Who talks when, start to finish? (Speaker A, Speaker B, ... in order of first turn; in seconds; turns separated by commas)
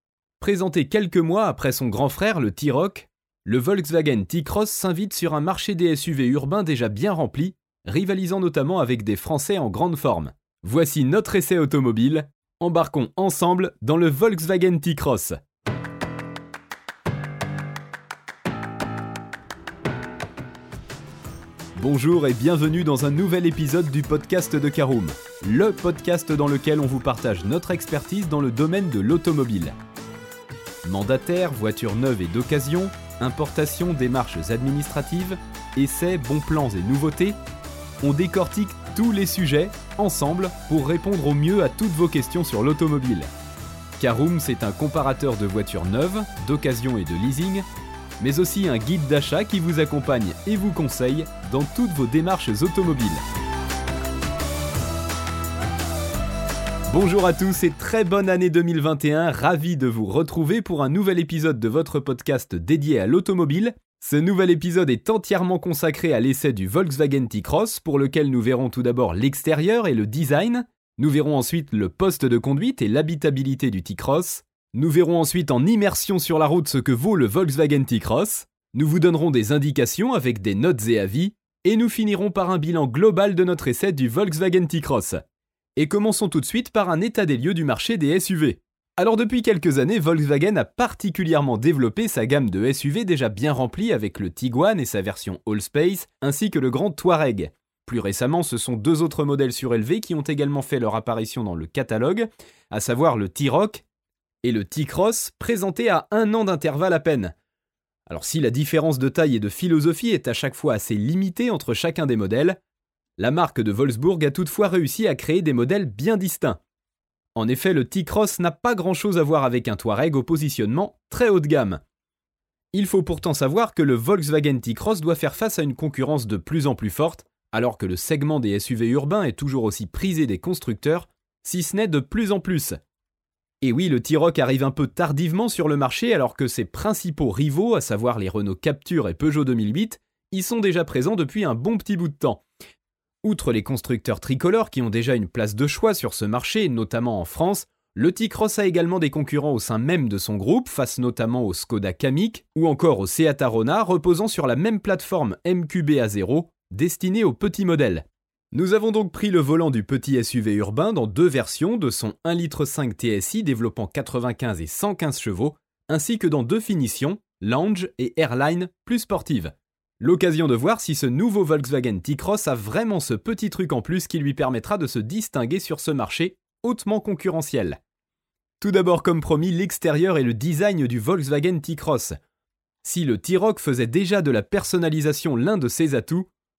Speaker A: 0.4-15.4, Speaker A: 21.8-29.8, Speaker A: 30.8-37.4, Speaker A: 38.0-43.3, Speaker A: 44.0-47.6, Speaker A: 48.2-53.2, Speaker A: 56.9-85.2, Speaker A: 85.8-103.8, Speaker A: 104.4-107.3, Speaker A: 108.1-112.6, Speaker A: 113.2-116.6, Speaker A: 117.3-121.8, Speaker A: 122.7-132.8, Speaker A: 133.6-142.4, Speaker A: 143.2-177.8, Speaker A: 178.6-182.2, Speaker A: 182.8-186.3